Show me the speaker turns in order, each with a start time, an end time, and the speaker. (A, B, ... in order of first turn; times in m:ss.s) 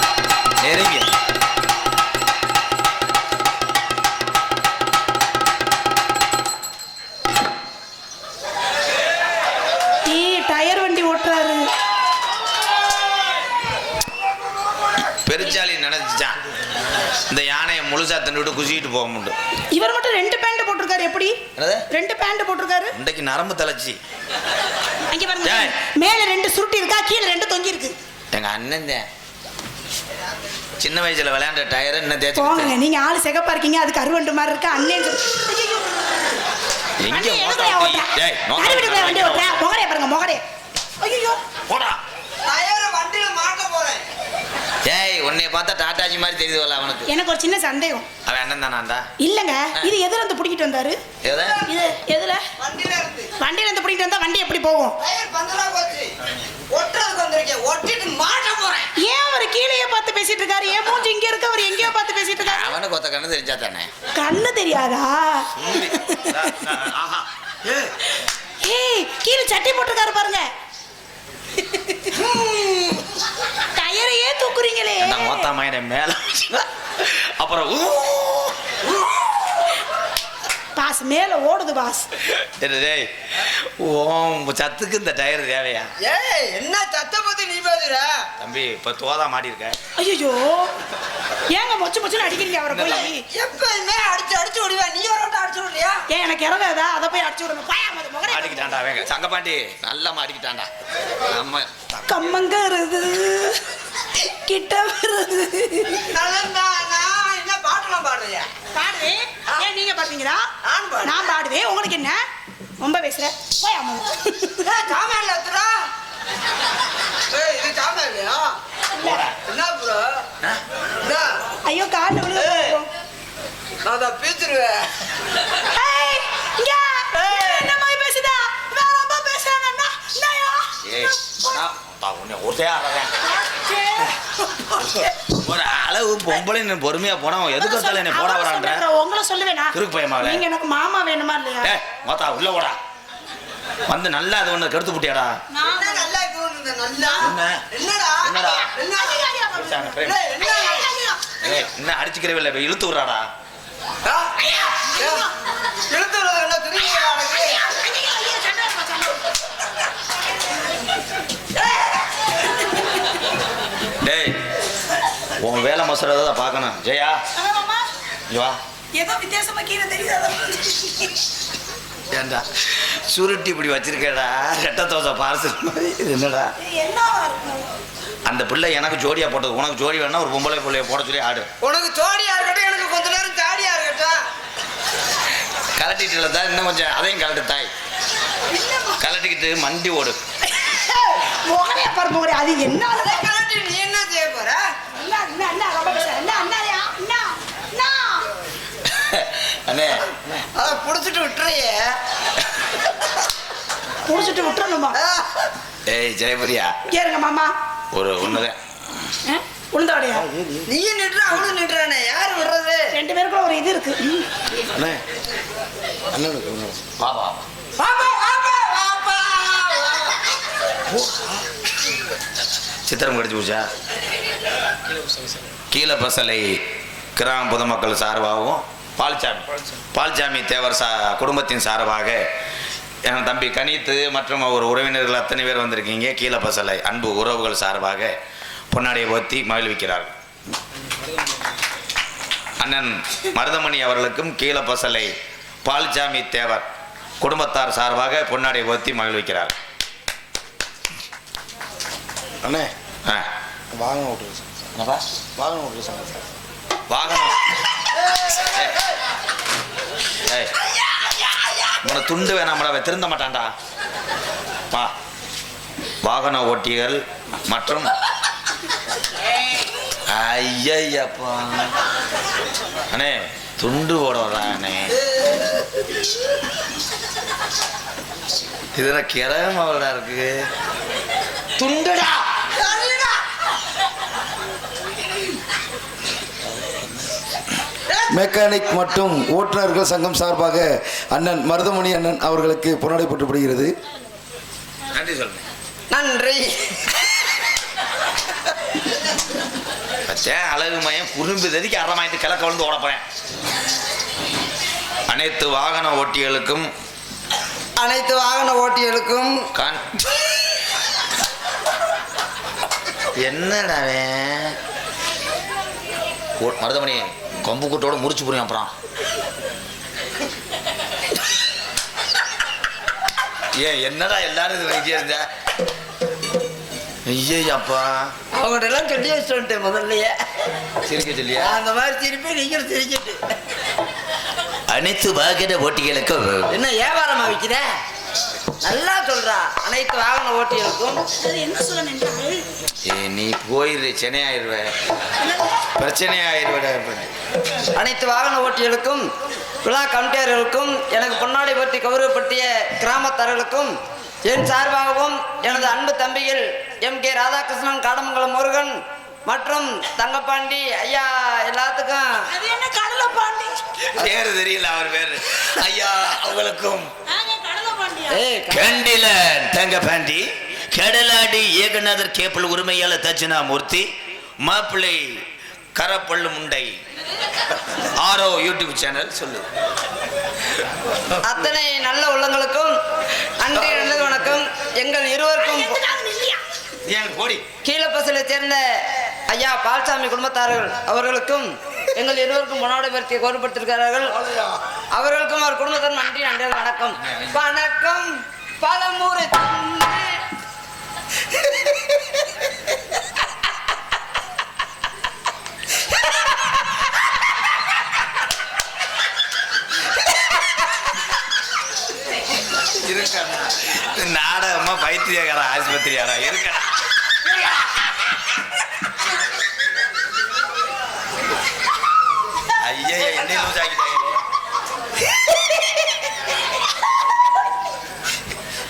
0:00.6-0:01.1 A
0:10.1-0:11.7 B
0:15.2-0:16.4 A
0:17.3-0:19.4 A
0:19.7-0:21.4 B
0:21.6-0:21.8 A
0:21.9-0:22.9 B
0:22.9-0:24.0 A
0:25.1-0:28.0 B
0:25.4-0:25.7 A
0:28.3-0:29.1 A
0:30.8-0:32.7 A
0:32.4-0:36.1 B
0:37.0-0:39.6 A
0:37.1-0:40.4 B
0:41.0-0:41.4 B
0:41.7-0:42.0 A
0:42.4-0:44.0 C
0:44.8-0:47.1 A
0:47.1-0:48.1 B
0:48.3-0:49.0 A
0:49.2-0:51.0 B
0:51.2-0:51.6 A
0:51.3-0:51.6 C
0:51.6-0:52.4 B
0:52.6-0:53.3 C
0:53.4-0:55.0 B
0:55.0-0:56.2 C
0:56.7-0:58.9 C
0:59.0-1:02.7 B
1:02.4-1:03.9 A
1:04.2-1:06.5 B
1:05.6-1:07.3 A
1:08.6-1:10.5 B
1:11.6-1:12.1 B
1:12.1-1:13.1 C
1:13.8-1:15.5 B
1:15.0-1:18.6 A
1:20.8-1:22.1 B
1:22.3-1:25.9 A
1:26.0-1:28.3 C
1:28.4-1:29.8 A
1:30.0-1:30.7 B
1:31.5-1:33.2 B
1:32.7-1:33.1 A
1:33.3-1:36.0 C
1:36.1-1:38.6 B
1:38.3-1:40.7 A
1:41.3-1:42.0 A
1:42.0-1:46.0 B
1:46.0-1:48.5 C
1:48.7-1:50.5 B
1:50.6-1:51.3 C
1:51.0-1:52.2 B
1:52.8-1:54.8 B
1:54.6-1:55.8 C
1:57.3-1:58.6 C
1:59.0-1:59.3 B
1:59.0-1:59.3 A
1:59.4-2:00.2 C
2:01.0-2:01.4 C
2:01.7-2:02.9 B
2:02.3-2:02.8 C
2:03.8-2:05.0 C
2:05.5-2:11.4 B
2:07.2-2:07.7 C
2:10.8-2:13.1 A
2:13.2-2:15.2 B
2:15.3-2:18.8 A
2:17.6-2:21.7 B
2:19.7-2:20.4 A
2:21.6-2:22.8 A
2:23.9-2:25.3 A
2:25.5-2:26.1 B
2:25.7-2:29.2 C
2:27.0-2:27.3 B
2:27.2-2:27.6 A
2:28.2-2:28.7 A
2:28.8-2:31.4 B
2:29.5-2:30.2 A
2:30.0-2:30.9 C
2:31.4-2:33.3 A
2:34.0-2:35.3 C
2:34.7-2:35.3 B
2:35.9-2:37.6 C
2:37.5-2:39.2 B
2:44.0-2:44.4 A
2:45.4-2:47.2 A
2:47.4-2:47.9 B
2:48.3-2:48.6 A
2:49.0-2:51.1 B
2:52.1-2:56.5 A
2:56.6-2:57.7 B
2:58.3-3:01.5 A
3:01.6-3:04.2 C
3:05.8-3:07.7 A
3:08.5-3:09.0 B
3:09.0-3:10.2 A
3:10.5-3:13.3 B
3:12.9-3:14.6 C
3:15.0-3:18.3 B
3:18.9-3:20.1 A
3:20.6-3:22.0 C
3:24.0-3:25.0 B
3:24.9-3:25.5 C
3:25.9-3:26.8 A
3:26.9-3:27.5 B
3:27.9-3:28.6 A
3:29.3-3:30.3 B
3:30.2-3:30.7 A
3:30.7-3:32.9 C
3:32.9-3:34.3 B
3:36.1-3:36.8 D
3:36.9-3:37.5 A
3:37.8-3:40.3 C
3:42.9-3:43.7 A
3:45.7-3:46.6 A
3:47.2-3:52.2 A
3:53.1-3:58.1 A
3:58.7-4:00.1 A
4:02.6-4:05.1 A
4:05.6-4:06.6 A
4:07.2-4:09.5 A
4:12.4-4:12.7 D
4:13.7-4:14.5 D
4:14.8-4:15.0 A
4:15.4-4:16.2 D
4:16.9-4:17.4 A
4:18.4-4:18.7 A
4:20.2-4:20.5 A
4:21.8-4:23.5 A
4:26.0-4:27.9 A
4:30.1-4:31.8 A
4:32.9-4:35.0 A
4:35.1-4:35.7 C
4:38.8-4:40.4 A
4:41.6-4:43.2 C
4:47.9-4:48.2 C
4:48.1-4:53.7 D
4:54.9-4:55.4 A
4:55.9-4:57.0 C
5:00.1-5:03.0 A
5:05.1-5:06.7 A
5:07.8-5:09.4 C
5:09.6-5:09.8 A
5:13.2-5:14.6 A
5:16.4-5:18.7 A
5:23.6-5:25.3 A
5:27.1-5:28.1 A
5:28.3-5:30.2 C
5:30.9-5:31.6 A
5:31.4-5:33.2 C
5:34.7-5:36.5 A
5:36.5-5:37.7 C
5:38.6-5:41.0 C
5:41.1-5:42.4 B
5:42.9-5:44.7 A
5:45.2-5:45.6 B
5:45.8-5:47.1 A
5:47.8-5:49.0 C
5:49.6-5:53.7 C
5:54.2-6:02.1 C
6:02.2-6:03.6 B
6:03.9-6:06.9 A
6:07.1-6:08.2 B
6:08.1-6:08.7 C
6:08.5-6:13.9 A
6:14.4-6:15.2 A
6:15.8-6:16.7 A
6:17.8-6:19.5 A
6:21.2-6:22.7 C
6:23.4-6:25.8 C
6:25.4-6:26.4 B
6:26.8-6:27.4 A
6:27.6-6:34.2 C
6:34.2-6:34.5 D
6:34.9-6:40.2 C
6:52.8-6:56.7 A
7:02.6-7:04.2 A